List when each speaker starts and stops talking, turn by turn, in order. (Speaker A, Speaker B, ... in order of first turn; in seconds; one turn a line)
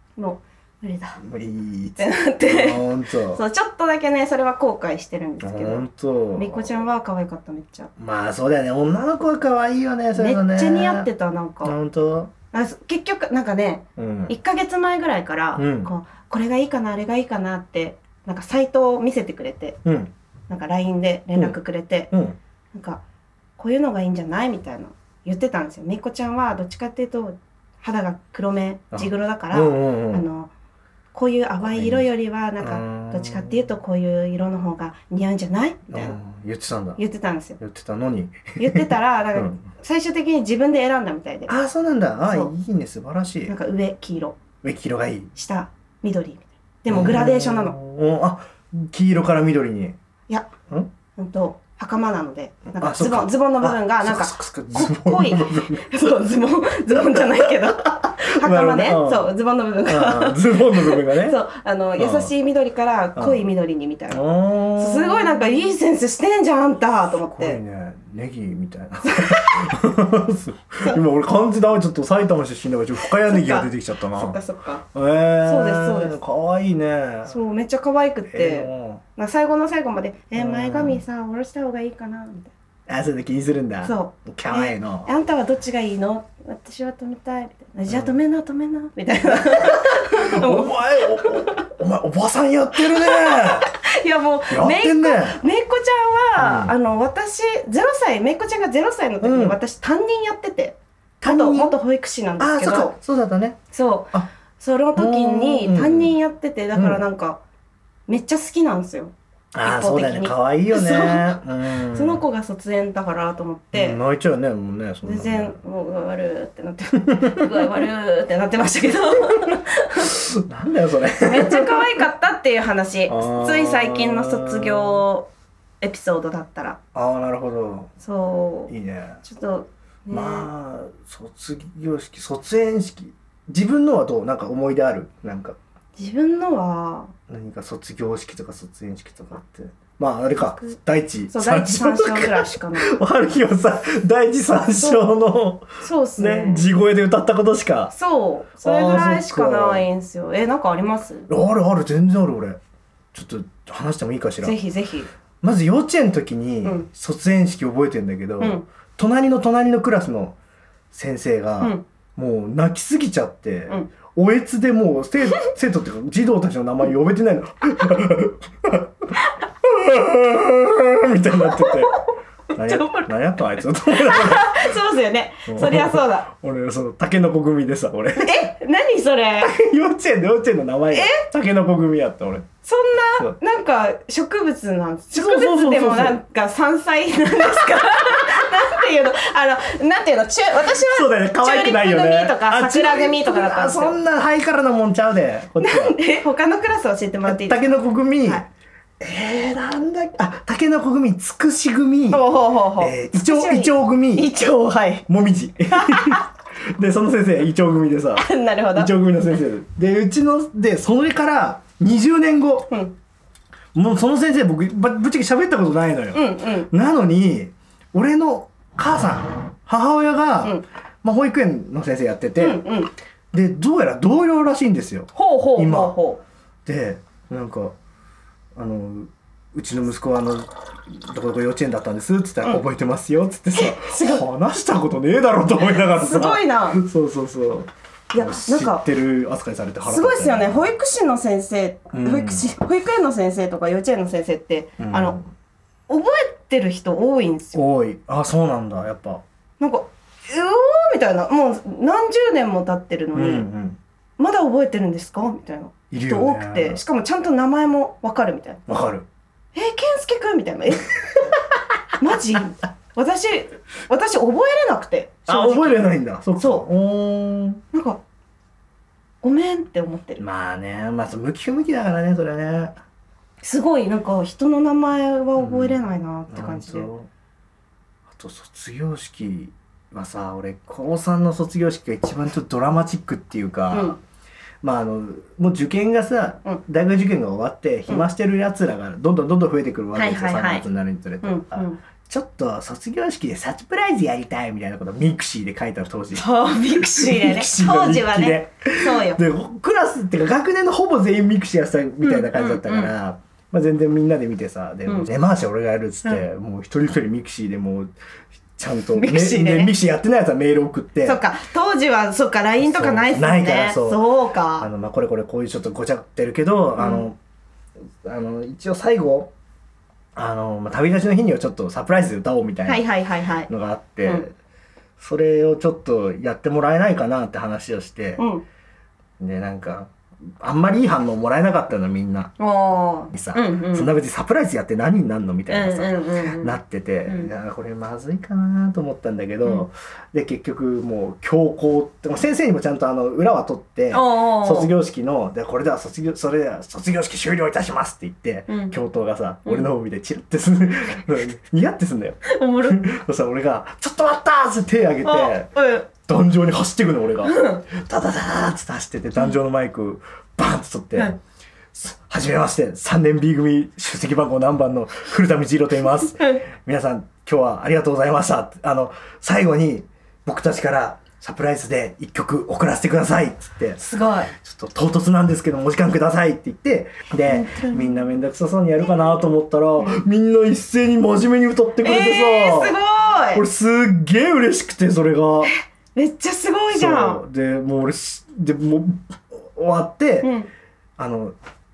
Speaker A: 0.2-1.2
Speaker B: 1.2-3.4
Speaker A: 2.0-7.9
Speaker B: 5.4-6.8
Speaker B: 8.0-11.1
Speaker A: 10.2-11.8
Speaker B: 11.6-12.3
Speaker A: 12.5-19.8
Speaker B: 14.0-14.3
Speaker B: 15.6-15.9
Speaker B: 19.8-20.1
Speaker A: 20.5-22.1
Speaker B: 22.1-22.4
Speaker A: 22.7-23.0
Speaker A: 23.6-30.5
Speaker B: 28.9-30.2
Speaker A: 31.1-36.2
Speaker B: 31.6-32.1
Speaker B: 32.6-33.7
Speaker B: 35.9-37.0
Speaker A: 37.0-37.6
Speaker B: 37.6-39.6
Speaker A: 38.6-41.5
Speaker B: 41.5-43.5
Speaker A: 42.2-42.5
Speaker A: 43.5-44.4
Speaker B: 44.6-45.3
Speaker A: 45.3-47.7
Speaker B: 46.9-50.0
Speaker A: 51.1-67.6
Speaker B: 52.8-55.8
Speaker B: 58.2-59.3
Speaker B: 59.9-61.4
Speaker B: 62.0-62.3
Speaker B: 64.1-65.5
Speaker B: 67.2-74.4
Speaker A: 69.0-69.7
Speaker A: 73.1-74.8
Speaker B: 74.9-77.3
Speaker A: 75.4-76.2
Speaker A: 77.3-82.5
Speaker B: 78.3-79.0
Speaker B: 80.3-81.0
Speaker B: 82.9-85.1
Speaker A: 83.8-91.7
Speaker B: 87.9-88.2
Speaker B: 89.3-93.7
Speaker A: 92.8-102.9
Speaker B: 94.5-95.4
Speaker B: 96.4-96.7
Speaker B: 99.2-99.6
Speaker B: 101.2-101.8
Speaker B: 102.4-103.6
Speaker A: 103.7-107.4
Speaker B: 105.0-106.1
Speaker B: 106.7-107.0
Speaker A: 108.1-114.0
Speaker B: 109.5-112.2
Speaker B: 113.7-115.6
Speaker A: 115.0-120.2
Speaker B: 117.1-117.5
Speaker B: 120.0-122.0
Speaker A: 121.2-125.3
Speaker B: 123.1-125.0
Speaker A: 125.8-126.8
Speaker B: 126.9-127.9
Speaker A: 128.0-130.5
Speaker B: 128.7-129.2
Speaker B: 130.1-135.6
Speaker A: 135.9-137.1
Speaker B: 137.3-147.9
Speaker A: 141.3-143.0
Speaker A: 144.8-145.1
Speaker A: 145.8-146.7
Speaker A: 147.9-151.3
Speaker B: 148.6-149.8
Speaker B: 151.3-152.6
Speaker B: 153.1-154.6
Speaker A: 154.4-155.1
Speaker B: 155.4-160.4
Speaker B: 160.9-169.1
Speaker B: 169.6-171.9
Speaker A: 171.4-172.0
Speaker B: 172.5-174.7
Speaker A: 172.6-173.1
Speaker A: 173.8-176.3
Speaker B: 175.5-178.5
Speaker A: 178.2-179.5
Speaker B: 179.4-182.5
Speaker A: 180.9-181.3
Speaker A: 182.6-194.0
Speaker B: 185.1-186.2
Speaker B: 190.7-196.0
Speaker A: 195.6-197.7
Speaker B: 197.2-198.5
Speaker B: 199.0-202.3
Speaker A: 202.1-205.1
Speaker B: 202.8-204.3
Speaker B: 205.1-212.7
Speaker A: 205.7-206.2
Speaker A: 208.2-208.9
Speaker B: 213.7-222.6
Speaker A: 216.1-216.7
Speaker A: 222.4-222.9
Speaker B: 223.3-225.9
Speaker A: 225.1-226.2
Speaker B: 226.7-227.7
Speaker B: 228.6-240.7
Speaker A: 233.5-234.2
Speaker A: 235.6-236.8
Speaker A: 238.1-238.8
Speaker A: 239.8-245.2
Speaker B: 241.9-242.4
Speaker B: 244.8-245.2
Speaker A: 245.9-247.6
Speaker B: 247.5-249.2
Speaker A: 249.6-253.5
Speaker B: 253.1-253.8
Speaker A: 254.2-258.6
Speaker B: 255.9-256.8
Speaker B: 258.7-259.1
Speaker A: 259.5-261.3
Speaker A: 262.0-266.7
Speaker B: 265.3-267.6
Speaker A: 267.7-268.0
Speaker A: 269.2-270.2
Speaker B: 270.2-272.8
Speaker A: 273.4-276.9
Speaker B: 275.4-277.1
Speaker B: 278.1-284.0
Speaker A: 283.7-284.0
Speaker B: 284.6-307.9
Speaker A: 289.9-290.6
Speaker A: 291.2-291.8
Speaker A: 296.2-299.2
Speaker A: 302.0-302.9
Speaker B: 308.6-311.2
Speaker A: 308.9-309.7
Speaker A: 311.0-314.7
Speaker B: 312.6-314.1
Speaker B: 314.6-317.2
Speaker A: 316.8-317.1
Speaker B: 318.0-319.3
Speaker B: 320.1-322.8
Speaker A: 322.6-323.5
Speaker B: 323.5-324.3
Speaker B: 325.0-328.2
Speaker A: 328.2-328.4
Speaker B: 329.2-332.3
Speaker A: 332.4-333.9
Speaker B: 333.1-361.2
Speaker A: 335.5-337.3
Speaker A: 343.9-344.7
Speaker A: 348.5-348.8
Speaker A: 352.2-352.9
Speaker A: 355.0-355.9
Speaker A: 357.2-357.6
Speaker B: 361.7-373.8
Speaker A: 366.2-366.4
Speaker A: 373.8-374.3
Speaker B: 374.3-382.8
Speaker A: 377.2-378.1
Speaker A: 379.8-380.0
Speaker A: 381.8-383.4
Speaker B: 383.3-385.5
Speaker A: 385.4-387.2
Speaker B: 386.7-390.3
Speaker A: 390.2-390.5
Speaker B: 391.0-391.3